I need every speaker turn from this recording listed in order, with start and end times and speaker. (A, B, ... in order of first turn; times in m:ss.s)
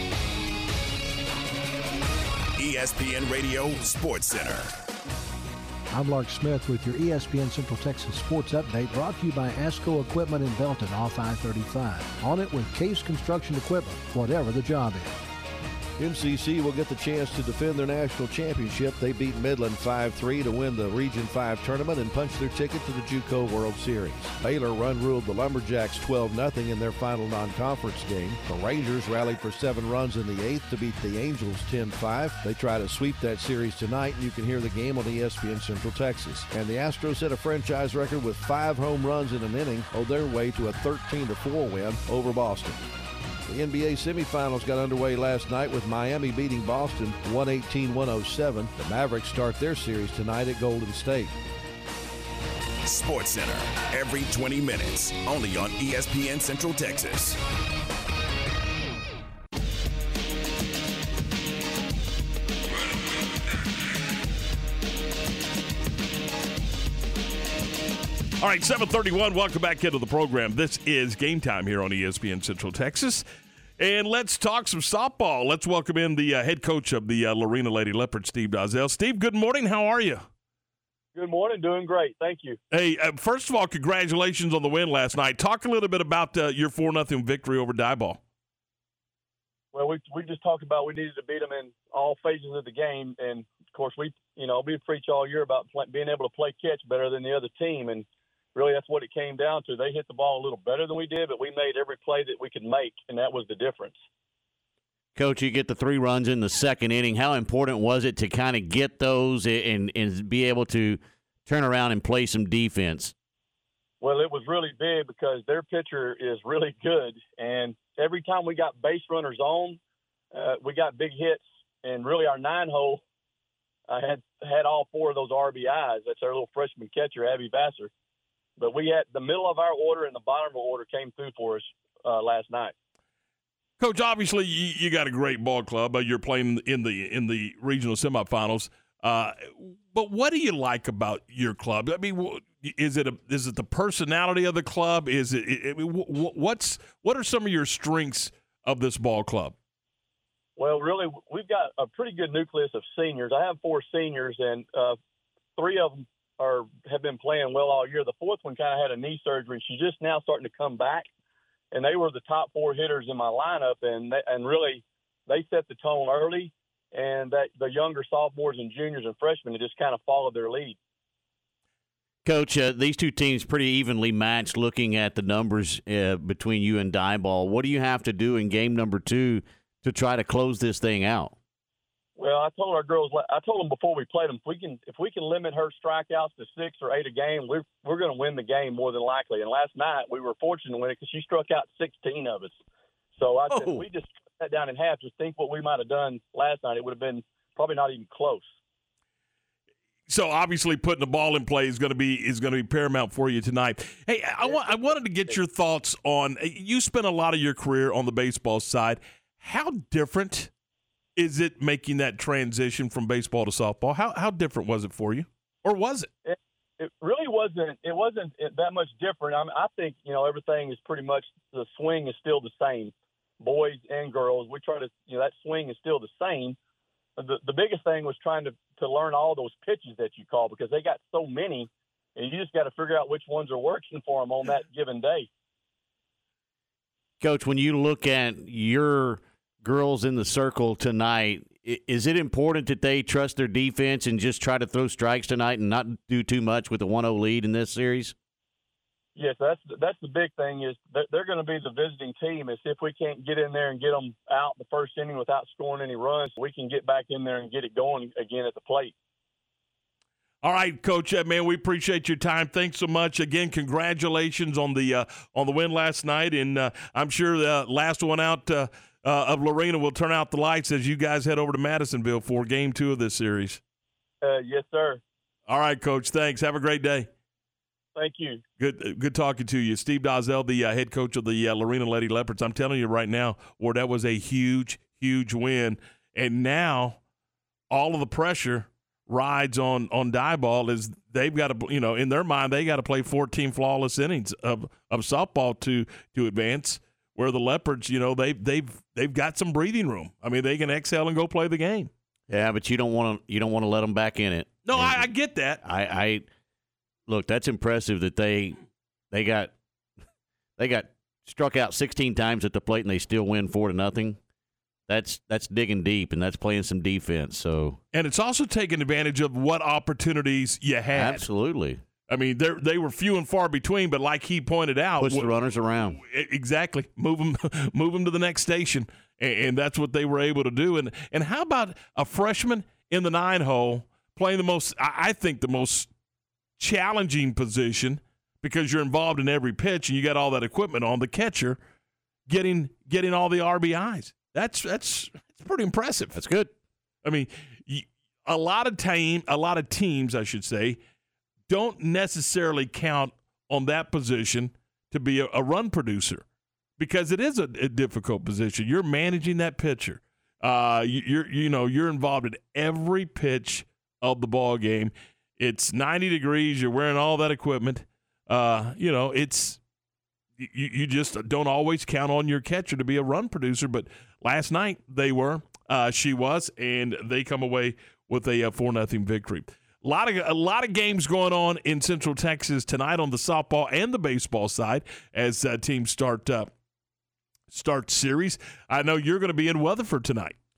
0:02.6-0:04.7 A
0:05.9-0:15.1 B
0:16.0-0:42.8 C
0:43.5-0:51.3 C
0:52.8-0:57.4 A
1:08.4-1:13.2 D
1:13.8-1:20.3 D
1:21.1-1:22.6 E
1:22.7-1:28.2 D
1:29.7-1:44.0 E
1:45.2-1:53.1 F
1:54.0-1:59.8 E
2:00.3-2:03.0 E
2:03.9-2:07.9 E
2:08.6-2:12.7 E
2:13.8-2:29.6 D
2:30.6-2:35.0 E
2:35.6-2:41.1 E
2:41.7-2:50.8 E
2:52.2-3:01.3 F
3:02.2-3:12.6 E
3:13.2-3:18.5 E
3:20.1-3:30.5 D
3:24.4-3:25.4 E
3:31.2-3:36.1 D
3:36.3-3:46.6 E
3:47.2-3:55.3 E
3:57.2-4:08.1 F
4:09.2-4:18.9 E
4:20.4-4:33.6 D
4:34.2-4:35.0 E
4:35.5-4:37.1 D
4:38.0-4:38.4 E
4:38.6-4:47.0 D
4:47.7-5:01.9 D
5:02.3-5:05.0 F
5:04.6-5:05.6 D
5:05.6-5:06.2 F
5:07.1-5:08.6 F
5:09.1-5:09.5 F
5:10.6-5:14.2 F
5:14.9-5:17.8 F
5:17.9-5:21.3 D
5:20.9-5:21.8 F
5:22.1-5:25.3 D
5:25.0-5:26.0 F
5:26.0-5:35.9 D
5:36.6-5:41.6 D
5:42.3-5:46.2 D
5:46.1-5:46.5 F
5:47.0-5:50.8 D
5:51.5-5:56.2 D
5:56.8-6:09.6 D
6:10.4-6:26.5 D
6:27.5-6:30.4 D